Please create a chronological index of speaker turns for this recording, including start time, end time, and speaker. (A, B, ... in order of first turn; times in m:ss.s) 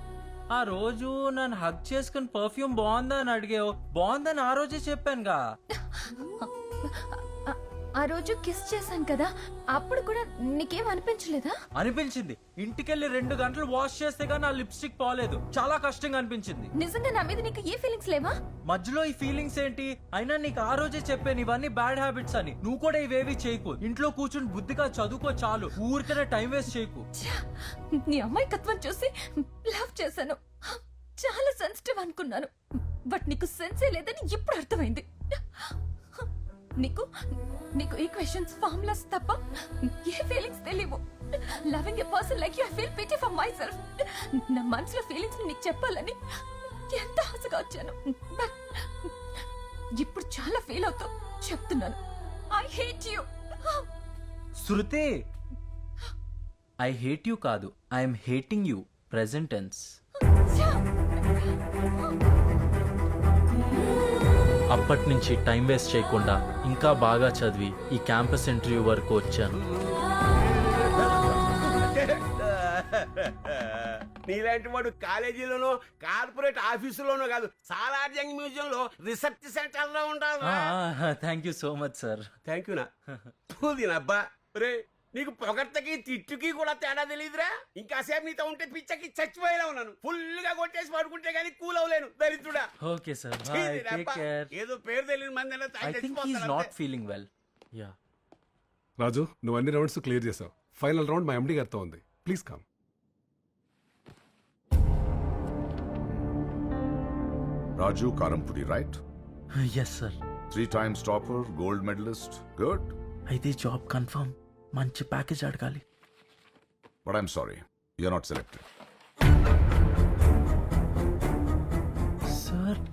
0:00.5-0:05.4 A
0:05.8-0:11.6 B
0:11.8-0:16.7 A
0:16.8-0:18.3 B
0:18.7-0:27.0 A
0:28.1-0:29.1 B
0:29.7-0:32.5 B
0:33.1-0:36.3 B
0:37.8-0:41.0 B
0:41.7-0:43.8 B
0:44.5-0:46.2 B
0:46.9-0:49.1 B
0:50.0-0:52.0 B
0:52.5-0:53.8 B
0:54.6-0:55.1 A
0:56.8-0:59.9 A
1:00.5-1:02.1 B
1:04.7-1:09.6 A
1:10.5-1:20.7 C
1:20.4-1:22.3 A
1:22.4-1:22.9 C
1:23.5-1:32.7 C
1:32.8-1:34.5 A
1:33.5-1:36.7 C
1:35.8-1:37.9 A
1:39.0-1:42.6 D
1:47.8-1:49.0 E
1:49.6-1:50.2 A
1:50.5-1:52.9 E
1:53.3-1:55.8 A
1:57.0-1:58.6 E
2:02.3-2:02.8 A